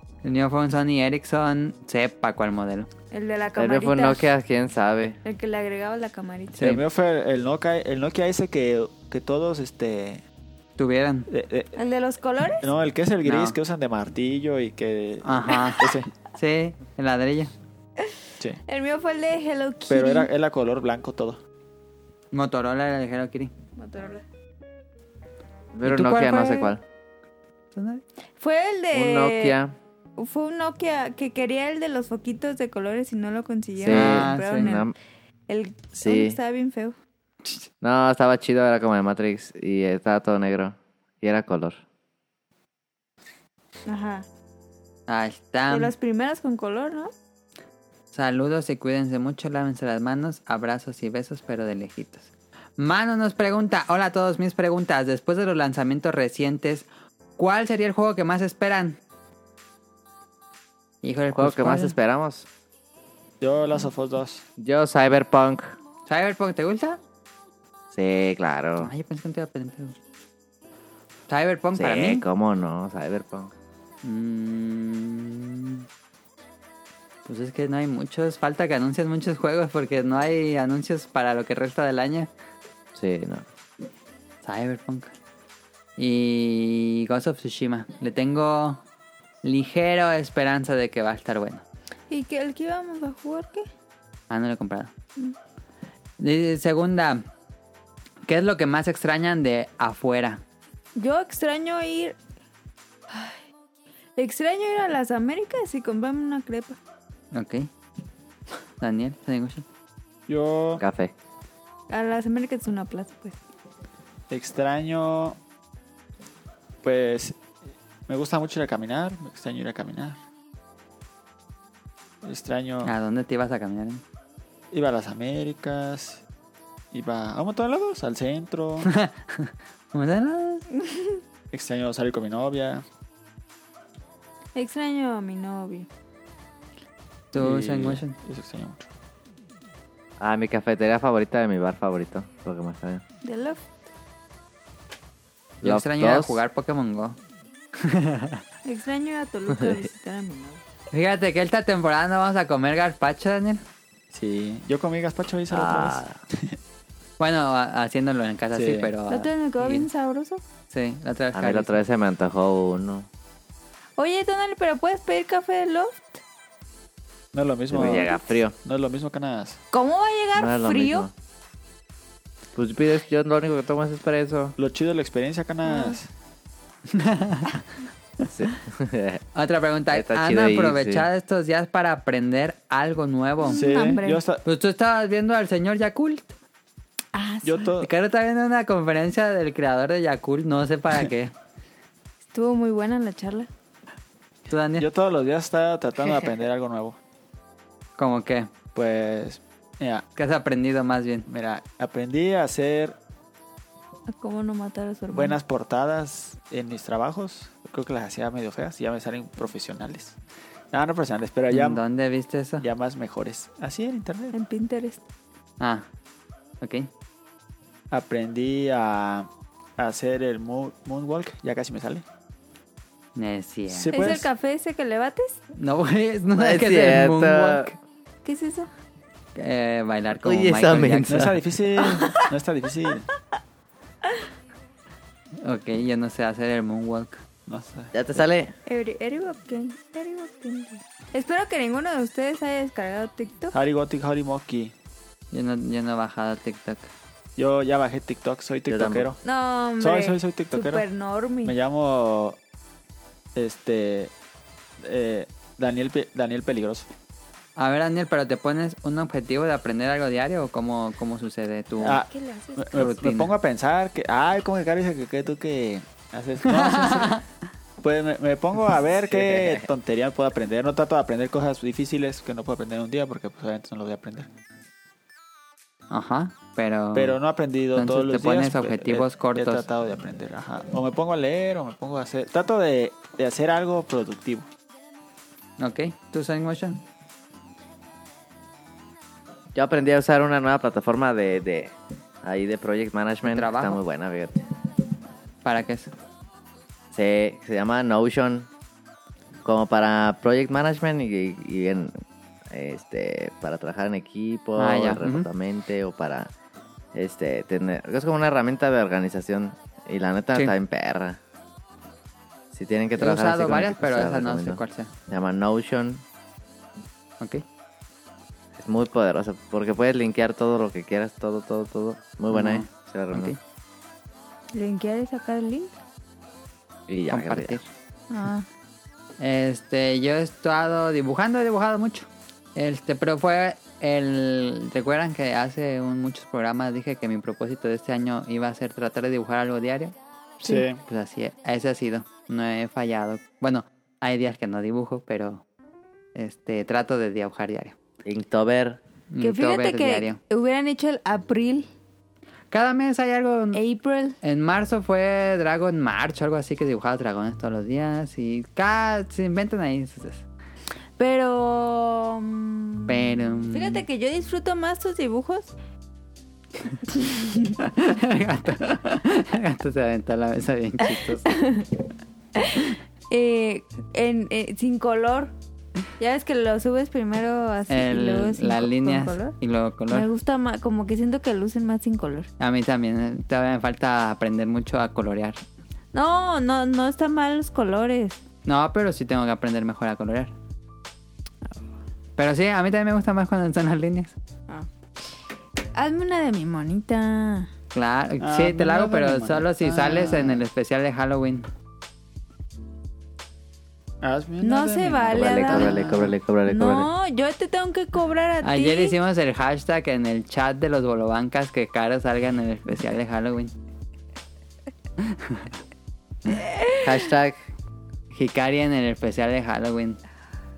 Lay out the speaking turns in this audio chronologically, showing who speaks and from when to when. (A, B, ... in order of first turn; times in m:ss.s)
0:00.2-0:02.9 A
0:03.1-0:04.3 B
0:03.6-0:05.2 C
0:05.2-0:06.6 B
0:06.6-0:06.8 A
0:06.6-0:10.2 D
0:10.8-0:11.3 A
0:11.3-0:11.8 D
0:11.8-0:12.7 B
0:12.6-0:16.1 D
0:13.2-0:13.6 A
0:15.2-0:17.5 A
0:18.6-0:20.3 B
0:19.9-0:21.4 D
0:22.3-0:23.5 A
0:23.8-0:24.2 B
0:25.7-0:26.8 C
0:25.8-0:26.7 A
0:27.8-0:28.0 A
0:28.4-0:29.6 B
0:28.9-0:29.8 C
0:30.2-0:34.9 B
0:33.8-0:34.9 C
0:33.9-0:34.7 A
0:35.5-0:37.0 B
0:36.0-0:36.4 C
0:37.8-0:41.8 C
0:43.9-0:44.3 B
0:45.1-0:45.9 A
0:45.7-0:47.1 B
0:48.1-0:56.9 A
0:57.4-0:59.0 A
1:01.0-1:02.0 A
1:01.3-1:02.5 C
1:03.4-1:04.4 D
1:04.6-1:05.8 C
1:06.1-1:07.0 A
1:07.9-1:08.9 C
1:08.8-1:10.0 A
1:11.3-1:12.2 A
1:11.8-1:13.5 C
1:14.0-1:15.9 A
1:17.2-1:22.3 A
1:23.0-1:23.4 C
1:24.4-1:25.1 A
1:26.0-1:28.8 A
1:29.4-1:31.6 A
1:32.1-1:33.7 B
1:34.3-1:34.9 A
1:36.2-1:37.3 A
1:38.2-1:40.4 A
1:41.0-1:42.2 B
1:43.1-1:43.4 B
1:44.2-1:46.8 B
1:47.3-1:47.7 A
1:48.8-1:49.6 A
1:50.3-1:50.8 D
1:50.8-1:51.1 C
1:51.9-1:53.4 B
1:54.3-1:55.4 D
1:56.8-1:57.4 D
1:58.1-2:00.2 D
2:02.2-2:02.9 D
2:02.8-2:04.0 A
2:04.7-2:06.2 D
2:06.9-2:08.9 D
2:08.8-2:10.6 A
2:10.8-2:11.2 B
2:11.5-2:12.8 D
2:14.6-2:15.9 B
2:17.3-2:18.2 A
2:17.4-2:18.9 D
2:20.2-2:23.0 C
2:23.2-2:23.7 B
2:25.6-2:26.4 C
2:25.6-2:27.2 A
2:27.8-2:28.4 A
2:28.6-2:30.6 B
2:29.5-2:29.9 C
2:30.9-2:33.6 A
2:34.1-2:36.6 D
2:35.5-2:36.2 C
2:37.2-2:39.9 A
2:38.5-2:38.9 D
2:39.1-2:40.4 B
2:40.7-2:41.8 A
2:41.3-2:43.1 C
2:44.0-2:46.2 B
2:47.3-2:49.6 D
2:47.7-2:48.6 C
2:47.8-2:48.3 B
2:49.7-2:51.1 B
2:50.3-2:51.1 C
2:52.6-2:54.6 C
2:54.6-2:56.1 D
2:55.6-2:56.0 B
2:56.9-2:57.6 A
2:58.3-2:59.2 C
2:59.4-3:03.6 A
2:59.9-3:01.1 C
3:03.4-3:04.2 B
3:03.5-3:04.4 D
3:04.4-3:06.3 A
3:07.1-3:07.7 B
3:07.4-3:07.9 D
3:07.8-3:11.3 A
3:12.3-3:13.5 B
3:14.5-3:14.9 A
3:14.8-3:17.0 D
3:18.0-3:18.5 A
3:18.8-3:20.0 D
3:20.2-3:21.3 A
3:21.3-3:23.0 D
3:24.1-3:25.4 B
3:25.1-3:30.2 D
3:30.7-3:31.8 D
3:31.5-3:32.7 A
3:32.6-3:34.4 D
3:34.3-3:35.0 B
3:35.6-3:35.9 A
3:36.6-3:36.9 A
3:37.9-3:42.0 D
3:43.2-3:44.0 A
3:43.7-3:44.3 D
3:43.9-3:45.4 B
3:45.6-3:47.7 A
3:46.4-3:47.7 C
3:48.2-3:48.7 B
3:49.4-3:51.4 A
3:50.2-3:51.4 C
3:51.1-3:53.1 D
3:51.8-3:52.3 B
3:55.4-3:57.2 A
3:57.5-3:57.9 D
3:57.9-3:58.5 C
3:58.7-4:03.6 B
4:03.5-4:04.7 D
4:05.3-4:06.9 A
4:07.4-4:09.2 D
4:08.7-4:09.1 C
4:09.2-4:11.6 B
4:09.8-4:10.8 D
4:11.4-4:12.4 D
4:13.4-4:14.1 D
4:14.8-4:16.9 D
4:17.6-4:22.0 A
4:21.8-4:27.2 D
4:22.1-4:22.9 B
4:22.7-4:23.3 A
4:26.5-4:27.2 A
4:27.8-4:34.3 D
4:29.1-4:29.7 C
4:35.9-4:37.2 A
4:36.9-4:44.5 D
4:37.8-4:39.7 A
4:45.6-4:46.8 A
4:49.5-4:54.4 C
4:53.2-4:53.8 A
4:55.4-4:55.9 A
4:56.9-4:58.5 C
4:59.4-5:02.0 C
5:02.5-5:06.3 C
5:04.6-5:05.3 A
5:06.9-5:11.2 C
5:12.5-5:16.0 C
5:13.0-5:14.9 A
5:18.6-5:23.4 C
5:22.3-5:23.4 A
5:24.5-5:25.7 B
5:26.9-5:27.6 C
5:27.1-5:27.7 A
5:28.1-5:28.5 B
5:29.2-5:40.0 A
5:40.4-5:40.8 D
5:40.8-5:45.4 A
5:46.2-5:47.8 A
5:48.0-5:48.8 C
5:49.1-5:50.2 A
5:49.2-5:51.7 B
5:52.5-5:53.6 A
5:53.5-5:54.2 B
5:54.2-6:00.2 A
6:01.0-6:05.5 B
6:02.9-6:03.8 A
6:06.9-6:07.6 B
6:07.6-6:11.3 A
6:11.0-6:11.8 B
6:12.4-6:15.3 B
6:16.0-6:19.4 B
6:17.7-6:20.1 A
6:19.9-6:22.3 B
6:22.4-6:25.4 A
6:25.9-6:28.2 B
6:28.5-6:30.3 A
6:32.2-6:34.1 A
6:35.7-6:37.5 B
6:37.7-6:41.5 A
6:38.2-6:40.4 D
6:44.0-6:46.1 D
6:44.4-6:45.9 B
6:45.1-6:46.9 C
6:46.5-6:49.0 B
6:48.4-6:53.5 A
6:55.0-6:55.5 A
6:56.2-6:57.1 B
6:56.8-6:57.4 C
6:58.1-7:00.0 A